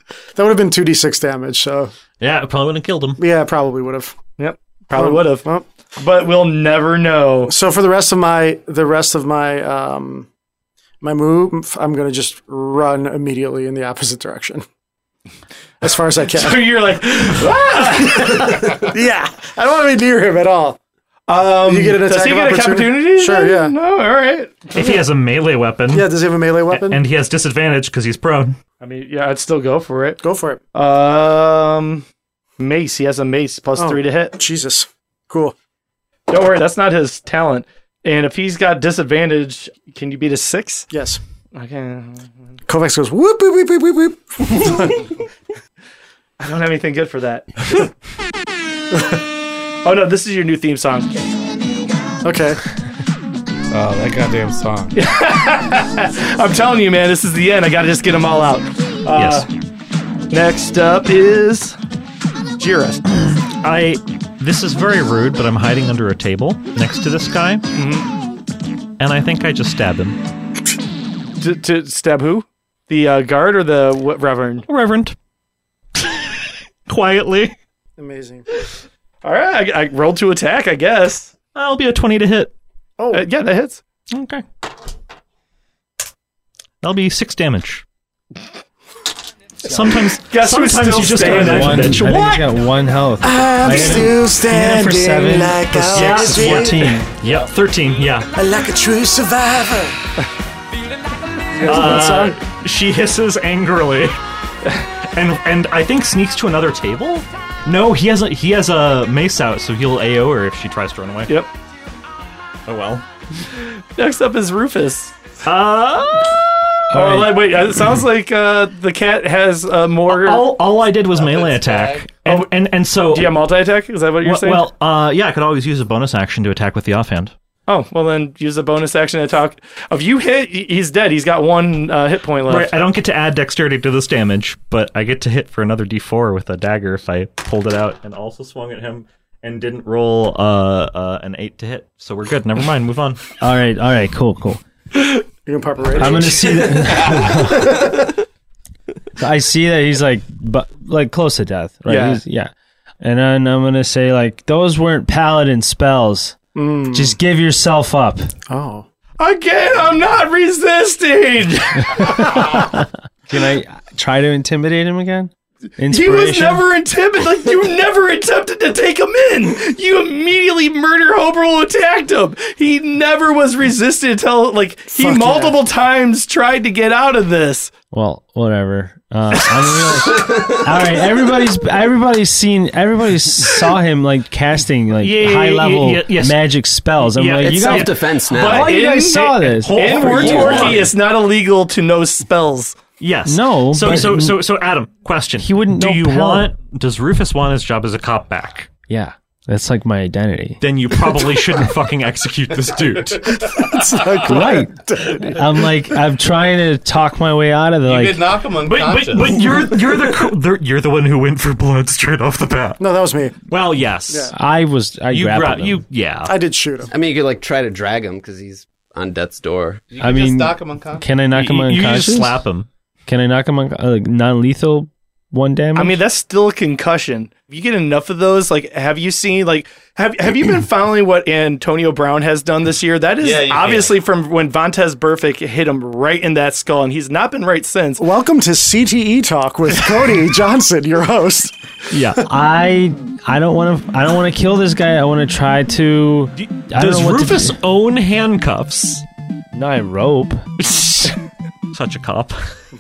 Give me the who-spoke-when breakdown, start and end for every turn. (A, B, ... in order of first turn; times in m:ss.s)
0:00.4-0:01.9 A
0:02.2-0:03.2 B
0:03.2-0:04.2 A
0:04.4-0:07.5 C
0:04.9-0:05.7 A
0:07.5-0:10.3 A
0:11.0-0:14.6 A
0:15.8-0:16.7 A
0:16.3-0:18.8 C
0:18.1-0:20.8 A
0:21.3-0:24.8 C
0:21.6-0:23.8 A
0:24.7-0:26.1 B
0:25.9-0:27.0 A
0:26.7-0:28.6 B
0:28.8-0:30.2 C
0:30.2-0:30.6 A
0:30.7-0:32.0 C
0:32.6-0:34.4 C
0:33.8-0:35.6 A
0:36.3-0:40.9 C
0:40.9-0:41.2 A
0:41.6-0:42.3 C
0:42.7-0:45.2 A
0:46.4-0:47.9 C
0:49.8-0:51.2 C
0:52.2-0:52.6 A
0:53.7-0:54.9 D
0:54.9-0:59.5 C
0:59.1-0:59.5 B
1:00.3-1:01.8 C
1:02.6-1:03.0 C
1:03.6-1:07.6 B
1:07.7-1:08.1 C
1:09.0-1:10.2 B
1:11.4-1:14.6 C
1:14.7-1:15.2 B
1:16.0-1:17.6 B
1:18.0-1:18.5 A
1:19.2-1:21.3 C
1:21.6-1:22.5 B
1:23.0-1:23.3 A
1:23.1-1:23.8 C
1:24.1-1:24.4 B
1:26.8-1:27.8 B
1:29.6-1:32.4 B
1:30.2-1:32.0 C
1:31.2-1:37.1 E
1:33.2-1:37.0 A
1:33.7-1:34.0 B
1:35.9-1:38.3 B
1:38.4-1:40.0 A
1:41.6-1:42.4 A
1:41.6-1:44.2 B
1:45.1-1:51.3 B
1:52.7-1:53.0 B
1:54.0-1:55.1 C
1:55.4-1:57.3 B
1:56.9-2:00.5 C
1:57.0-1:57.3 E
2:00.1-2:03.4 B
2:01.2-2:02.1 D
2:03.1-2:04.6 C
2:04.2-2:07.3 B
2:07.7-2:12.7 C
2:12.5-2:23.2 B
2:23.4-2:24.6 E
2:25.5-2:27.8 A
2:26.0-2:28.1 E
2:29.2-2:36.4 E
2:31.9-2:32.2 C
2:36.6-2:37.2 A
2:36.9-2:38.3 E
2:38.5-2:38.9 A
2:39.2-2:42.5 C
2:41.9-2:46.7 E
2:45.9-2:57.7 C
2:54.9-2:55.6 A
2:57.9-3:10.8 E
3:00.2-3:00.6 F
3:05.0-3:06.4 B
3:07.0-3:08.0 B
3:07.4-3:08.8 F
3:08.3-3:12.8 C
3:09.6-3:10.9 B
3:10.0-3:10.8 F
3:13.0-3:18.7 B
3:13.3-3:14.4 E
3:15.4-3:16.5 E
3:18.9-3:20.6 E
3:20.6-3:23.6 B
3:23.3-3:25.4 A
3:24.2-3:28.3 E
3:27.8-3:29.4 D
3:28.7-3:32.8 B
3:32.8-3:33.4 A
3:33.5-3:34.3 B
3:34.1-3:34.3 A
3:34.3-3:35.8 E
3:35.1-3:36.4 B
3:36.2-3:36.9 A
3:36.9-3:39.8 F
3:39.9-3:41.1 D
3:40.0-3:42.4 E
3:41.3-3:42.7 B
3:43.1-3:46.0 E
3:45.8-3:58.0 C
3:53.2-3:54.0 D
3:58.0-4:02.0 A
4:01.9-4:02.3 B
4:02.3-4:07.6 E
4:06.4-4:09.0 B
4:09.5-4:10.5 E
4:10.6-4:11.2 B
4:11.7-4:12.6 B